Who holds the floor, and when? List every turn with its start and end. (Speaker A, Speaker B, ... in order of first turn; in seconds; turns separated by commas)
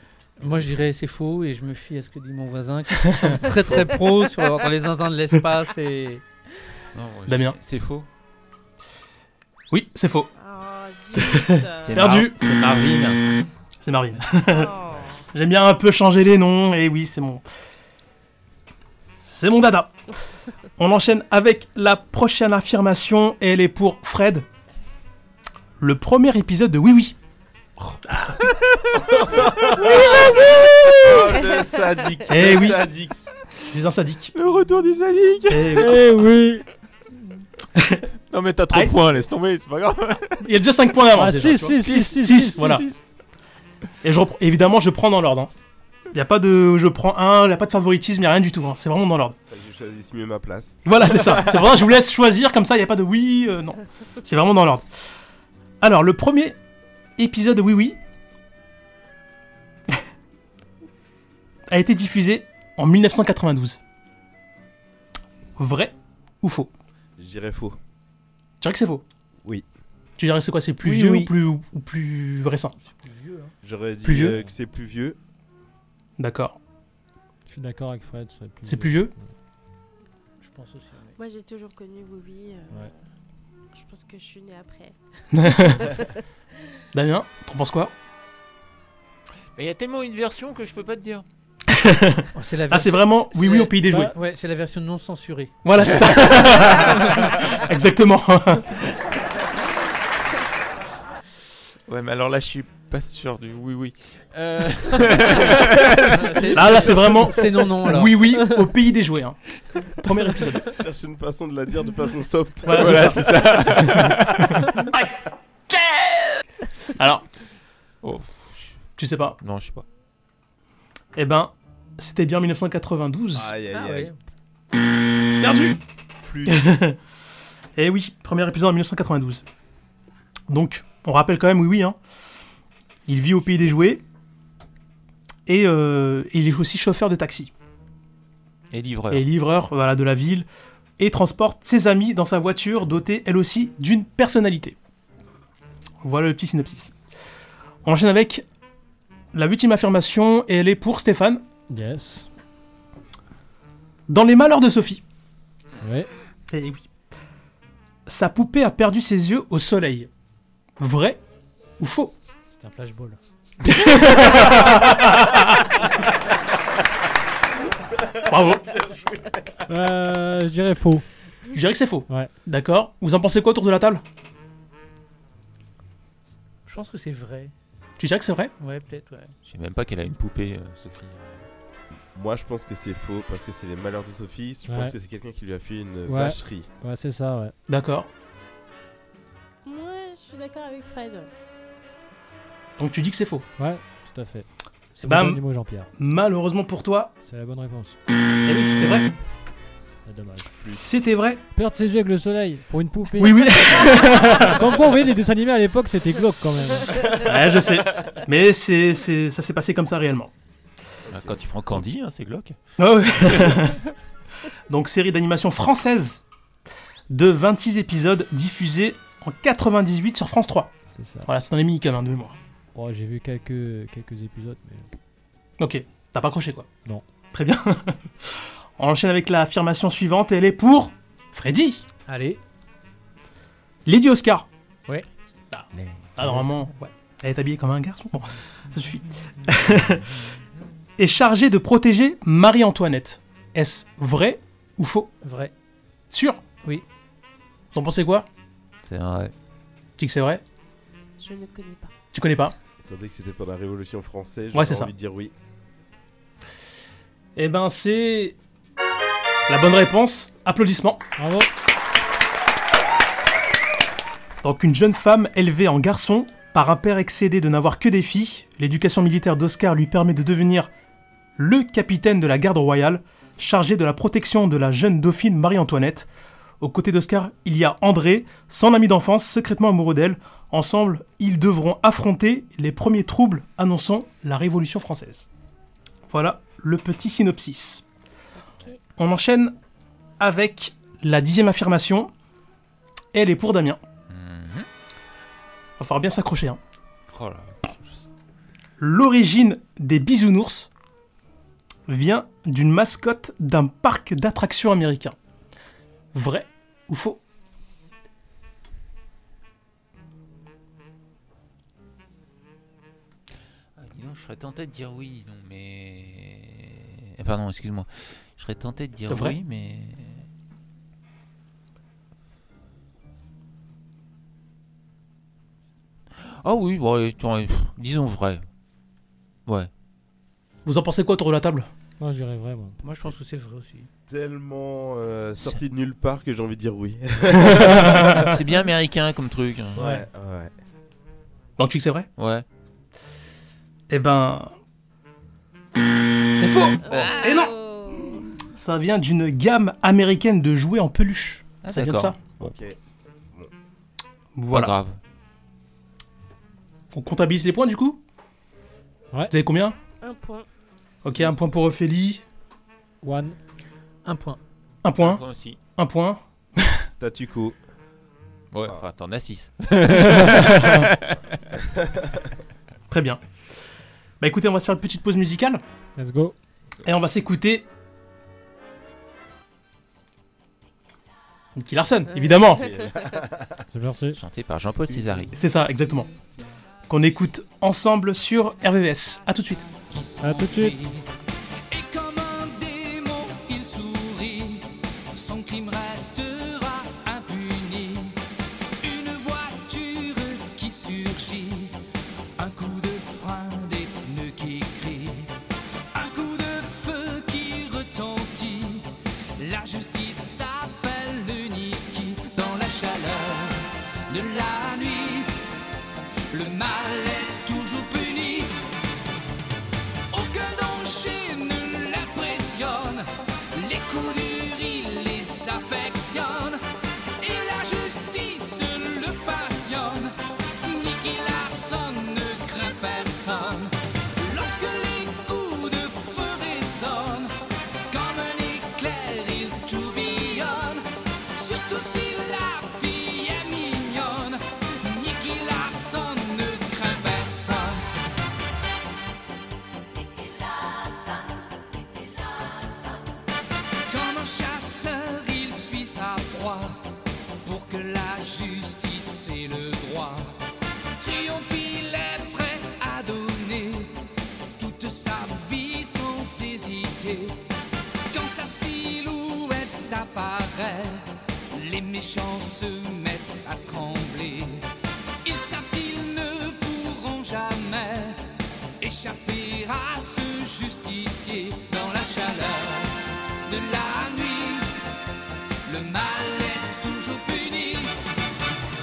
Speaker A: 0.4-6.2, Speaker B: 3.1-3.4, Speaker C: 6.9-8.1, Speaker B: 7.3-7.6, Speaker B: 9.7-10.3, Speaker D: 10.4-11.9, Speaker B: 11.2-12.4, Speaker C: 11.8-13.2, Speaker B: 13.8-14.7, Speaker D: 14.5-15.2, Speaker B: 15.3-17.4, Speaker B: 19.2-19.9, Speaker B: 20.8-24.5, Speaker B: 25.8-27.1, Speaker B: 28.1-28.4, Speaker E: 29.1-33.2, Speaker C: 29.1-30.6, Speaker B: 32.3-32.8, Speaker B: 33.7-34.3, Speaker C: 34.3-36.0, Speaker B: 35.5-36.0, Speaker F: 35.8-36.6, Speaker C: 38.3-40.5, Speaker B: 40.4-42.9, Speaker F: 41.1-42.8, Speaker C: 41.8-43.0, Speaker B: 44.0-45.5, Speaker B: 46.1-49.4, Speaker E: 49.5-51.3, Speaker B: 50.9-54.9, Speaker B: 55.8-56.6, Speaker B: 57.2-58.0, Speaker B: 61.7-63.8, Speaker B: 65.6-66.7, Speaker E: 67.2-67.8, Speaker B: 68.6-69.0, Speaker B: 70.2-72.7, Speaker F: 70.9-71.3, Speaker A: 72.9-73.5, Speaker E: 73.6-75.2, Speaker B: 74.0-74.4, Speaker B: 76.2-76.6, Speaker F: 77.5-79.2, Speaker B: 78.6-79.1, Speaker A: 80.4-81.2, Speaker D: 81.2-82.9, Speaker D: 83.7-86.1, Speaker B: 85.3-86.0, Speaker B: 86.9-87.9, Speaker C: 89.5-91.2, Speaker B: 91.7-94.1, Speaker A: 92.3-95.5, Speaker B: 95.6-98.7, Speaker C: 96.3-96.7, Speaker C: 101.9-107.3, Speaker A: 106.1-108.3, Speaker B: 106.5-109.4, Speaker B: 110.0-110.7, Speaker E: 110.7-114.2, Speaker B: 112.7-113.3, Speaker C: 112.7-114.7, Speaker B: 117.0-117.3, Speaker C: 118.0-119.8, Speaker B: 119.0-119.4, Speaker B: 121.2-123.5, Speaker E: 123.3-124.1, Speaker A: 123.7-124.2, Speaker B: 125.4-125.8, Speaker E: 126.2-126.7, Speaker B: 126.5-127.0, Speaker B: 127.8-129.4, Speaker B: 130.5-132.0, Speaker B: 133.1-134.0, Speaker B: 135.5-137.5, Speaker C: 138.7-139.3, Speaker B: 139.1-140.5, Speaker B: 141.0-144.8, Speaker B: 146.0-146.9, Speaker B: 147.8-148.4, Speaker B: 149.3-151.4, Speaker F: 151.7-152.3, Speaker B: 154.1-155.0, Speaker F: 155.8-156.1, Speaker B: 156.5-156.9, Speaker B: 158.1-160.1, Speaker B: 160.8-161.2, Speaker B: 161.8-162.2, Speaker A: 162.5-163.2, Speaker B: 163.7-165.7, Speaker E: 168.0-169.6, Speaker B: 168.3-168.7, Speaker F: 169.7-171.1, Speaker B: 171.5-174.0, Speaker A: 176.7-177.5, Speaker B: 178.0-178.5, Speaker A: 178.6-179.3, Speaker C: 179.4-181.5, Speaker E: 182.2-186.7, Speaker F: 186.1-187.6, Speaker B: 187.7-188.1, Speaker D: 189.7-191.3, Speaker B: 192.8-193.5, Speaker F: 193.6-195.9, Speaker B: 195.0-195.4, Speaker B: 196.0-197.1, Speaker F: 197.2-198.0, Speaker B: 198.4-199.1, Speaker F: 200.1-200.5, Speaker B: 200.7-201.4, Speaker F: 201.5-207.3, Speaker B: 203.2-204.7, Speaker B: 207.2-210.3, Speaker E: 211.1-211.4, Speaker C: 211.1-212.6, Speaker B: 212.8-213.8, Speaker C: 213.1-213.6, Speaker B: 214.7-216.2, Speaker B: 217.1-220.7, Speaker F: 220.9-221.3, Speaker B: 221.3-222.4, Speaker F: 222.8-224.9, Speaker B: 225.6-226.7, Speaker B: 227.3-231.8, Speaker A: 232.1-232.4, Speaker B: 233.9-234.5, Speaker B: 235.5-240.1, Speaker B: 241.0-245.1, Speaker A: 245.2-245.5, Speaker B: 246.1-246.4, Speaker B: 247.7-248.3, Speaker C: 248.8-249.3, Speaker B: 250.0-250.4, Speaker D: 251.2-251.9, Speaker B: 252.1-252.6, Speaker E: 252.8-255.3, Speaker B: 254.5-254.9, Speaker B: 257.4-258.4, Speaker B: 259.5-261.0, Speaker F: 261.2-261.5, Speaker B: 264.4-270.7, Speaker B: 271.4-276.1, Speaker B: 276.6-285.3, Speaker B: 286.1-287.8, Speaker B: 289.0-289.6, Speaker B: 290.2-292.1, Speaker B: 293.1-293.8, Speaker C: 294.1-294.7, Speaker B: 295.8-296.6, Speaker C: 297.1-298.1, Speaker B: 298.8-300.7, Speaker B: 301.9-305.1, Speaker B: 306.1-307.2, Speaker C: 313.8-320.3, Speaker B: 319.1-319.4, Speaker C: 326.4-328.4, Speaker B: 330.6-331.7, Speaker F: 332.0-332.8, Speaker A: 332.8-333.9, Speaker E: 334.1-338.4, Speaker B: 337.5-338.2, Speaker C: 337.8-339.9, Speaker E: 339.8-340.5, Speaker B: 341.6-342.1, Speaker C: 342.2-342.4, Speaker B: 343.9-344.5, Speaker B: 346.4-347.5, Speaker D: 346.9-348.2, Speaker B: 348.6-352.2, Speaker C: 351.6-352.6, Speaker E: 352.4-352.8, Speaker B: 354.4-354.7, Speaker C: 354.5-355.0, Speaker B: 356.9-358.0, Speaker B: 359.3-359.8, Speaker D: 360.0-360.5, Speaker B: 361.0-362.2, Speaker E: 361.1-361.4, Speaker F: 363.0-363.4, Speaker A: 364.1-364.4, Speaker B: 364.8-365.2, Speaker C: 365.0-365.6, Speaker B: 365.8-366.9, Speaker E: 366.9-367.6, Speaker C: 368.5-371.2, Speaker E: 371.8-372.2, Speaker B: 372.9-373.2, Speaker B: 374.2-375.6, Speaker F: 376.0-376.4, Speaker B: 376.9-377.7, Speaker B: 381.6-382.6, Speaker E: 382.6-383.6, Speaker F: 383.7-384.2, Speaker C: 384.1-385.4, Speaker B: 385.4-386.1, Speaker B: 386.9-389.7, Speaker G: 389.9-391.1, Speaker F: 390.2-390.8, Speaker G: 391.7-398.2, Speaker G: 398.8-401.8, Speaker G: 402.4-405.3, Speaker G: 405.9-415.3, Speaker G: 416.3-418.6, Speaker G: 420.1-426.6, Speaker G: 427.2-437.3, Speaker G: 437.9-447.9, Speaker G: 453.9-456.8, Speaker G: 457.4-460.3, Speaker G: 461.0-463.9, Speaker G: 464.6-467.4, Speaker G: 468.1-474.7, Speaker G: 475.2-478.2, Speaker G: 478.8-484.8, Speaker G: 485.6-488.0